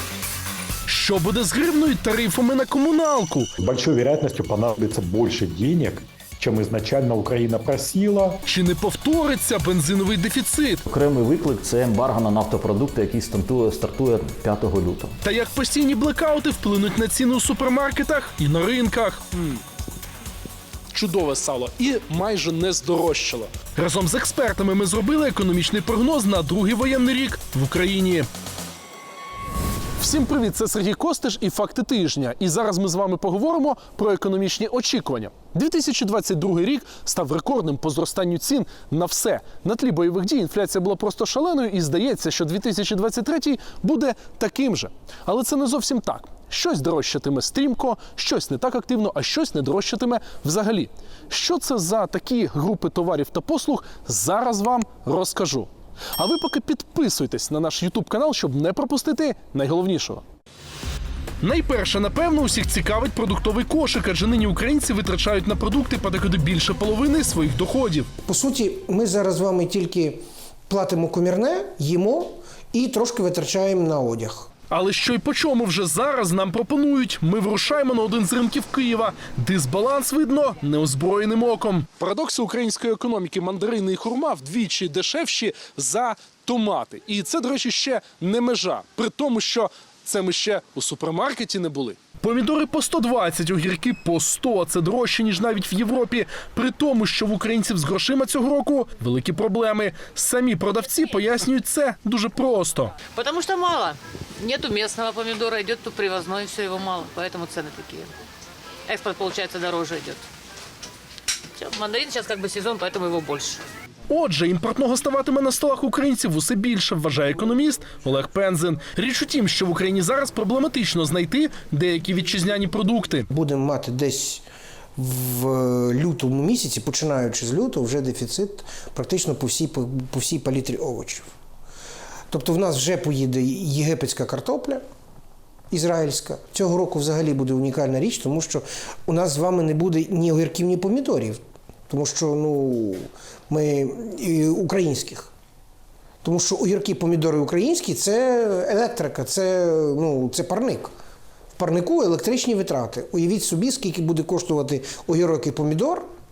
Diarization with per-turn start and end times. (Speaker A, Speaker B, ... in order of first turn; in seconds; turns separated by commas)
Speaker A: 0.9-3.5, Speaker B: 3.6-8.4, Speaker A: 8.4-10.8, Speaker C: 10.9-15.1, Speaker A: 15.2-19.6, Speaker A: 20.9-28.3, Speaker A: 30.0-60.2, Speaker A: 61.4-68.1, Speaker D: 68.2-74.5, Speaker A: 74.7-103.0, Speaker E: 103.1-108.1, Speaker E: 108.9-110.2, Speaker E: 111.5-113.6, Speaker A: 114.1-123.3, Speaker D: 123.3-124.4, Speaker D: 125.0-131.3, Speaker D: 132.3-134.8, Speaker D: 135.7-145.3, Speaker D: 146.2-150.9, Speaker D: 151.6-156.1